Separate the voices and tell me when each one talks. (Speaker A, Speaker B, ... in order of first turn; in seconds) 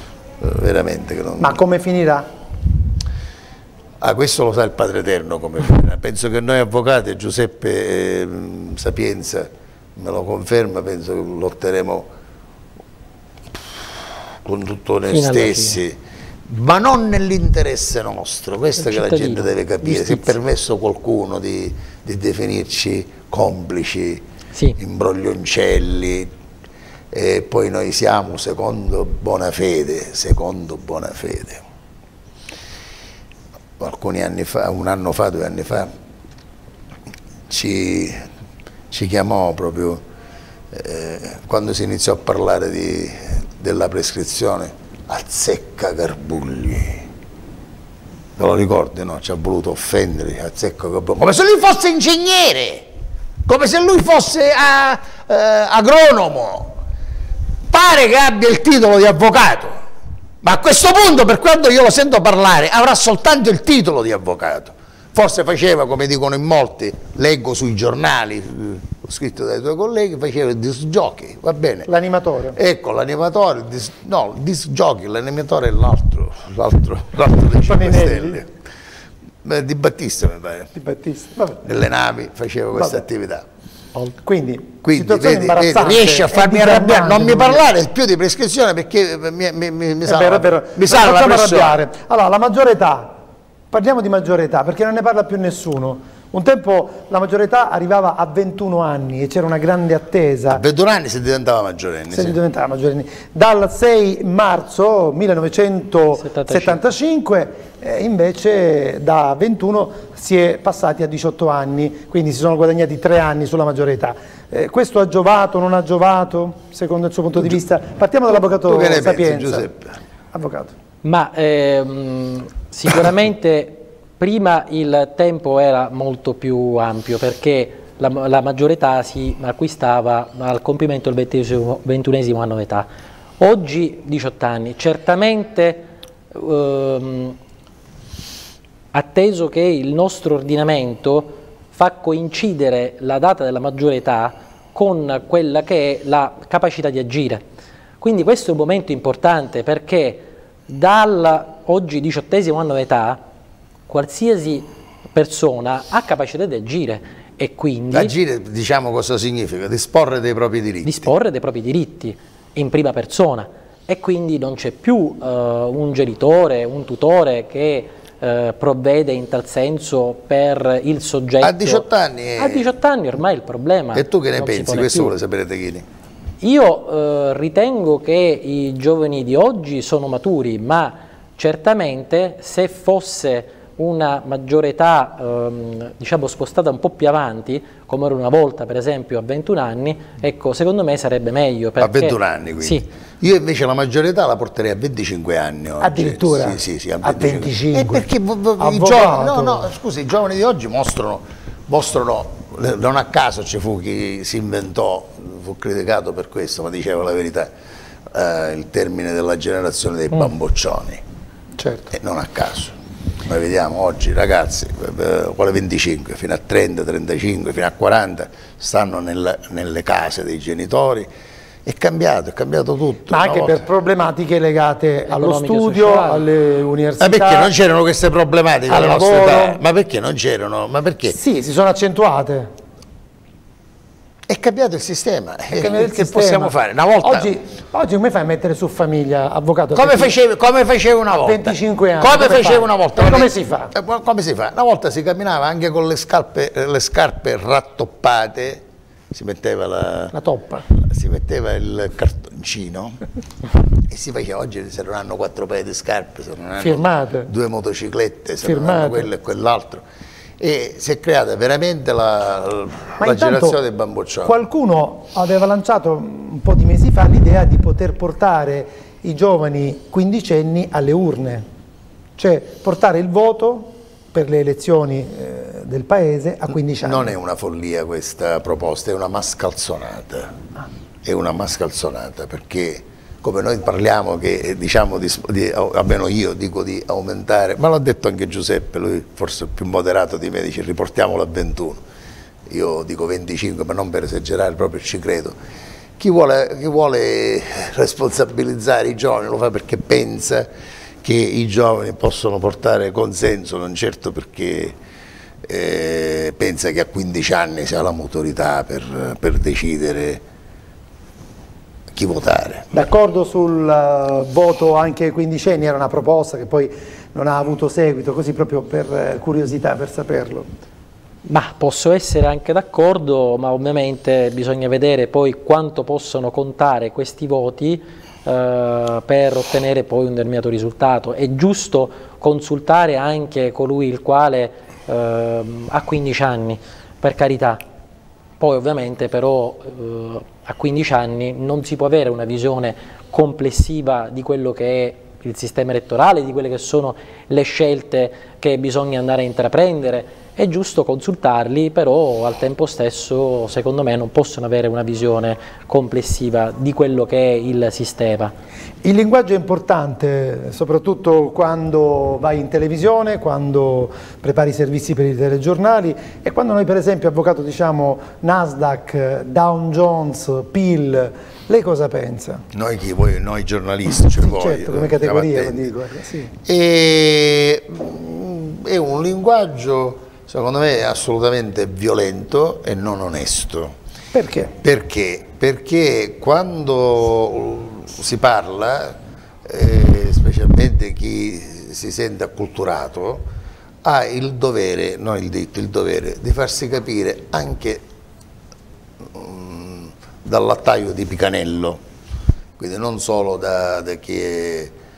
Speaker A: 0.4-1.6, 4.0-12.1, 14.3-24.2, 24.8-26.3, 27.1-31.6, 33.8-35.9, 37.5-38.2, 38.9-40.0, 40.7-47.1, 48.4-52.9, 53.5-56.8, 57.7-59.8, 60.4-71.9, 72.5-78.5, 79.4-80.7, 81.6-83.5, 84.8-91.8, 100.5-102.4, 118.3-120.0, 157.9-161.1, 171.4-172.7, 173.9-175.8, 191.8-207.5, 208.1-211.0, 211.9-221.1, 221.7-223.7, 227.0-231.2, 234.3-237.3, 239.7-250.1, 250.7-253.0, 253.9-259.8, 260.4-264.4, 276.8-280.4, 281.0-291.8, 292.5-295.4, 296.0-300.5, 301.0-304.8, 305.5-310.2, 311.9-312.9, 372.5-375.7, 376.4-383.8, 384.6-393.3, 393.8-397.8, 399.0-401.8, 402.6-404.7
Speaker B: 1.4-2.3, 71.9-72.6, 77.7-78.4, 80.8-81.6, 84.0-87.6, 90.1-93.2, 93.7-100.6, 102.1-119.7, 120.3-120.7, 195.8-198.1, 198.6-199.7, 211.6-211.9, 223.1-227.5, 228.7-229.6, 231.1-232.5, 235.5-240.2, 241.2-243.7, 250.1-250.7, 256.6-257.3, 258.4-259.1, 263.0-263.6, 264.2-271.4, 272.2-277.1, 312.7-320.5, 358.8-372.4, 374.0-376.3, 384.1-384.6
Speaker C: 15.1-15.8, 18.8-20.3, 106.2-106.8, 121.0-132.9, 133.4-137.4, 138.9-147.4, 148.0-153.2, 153.9-158.1, 160.8-175.1, 176.4-192.9, 225.1-226.2, 321.3-337.6, 338.4-358.3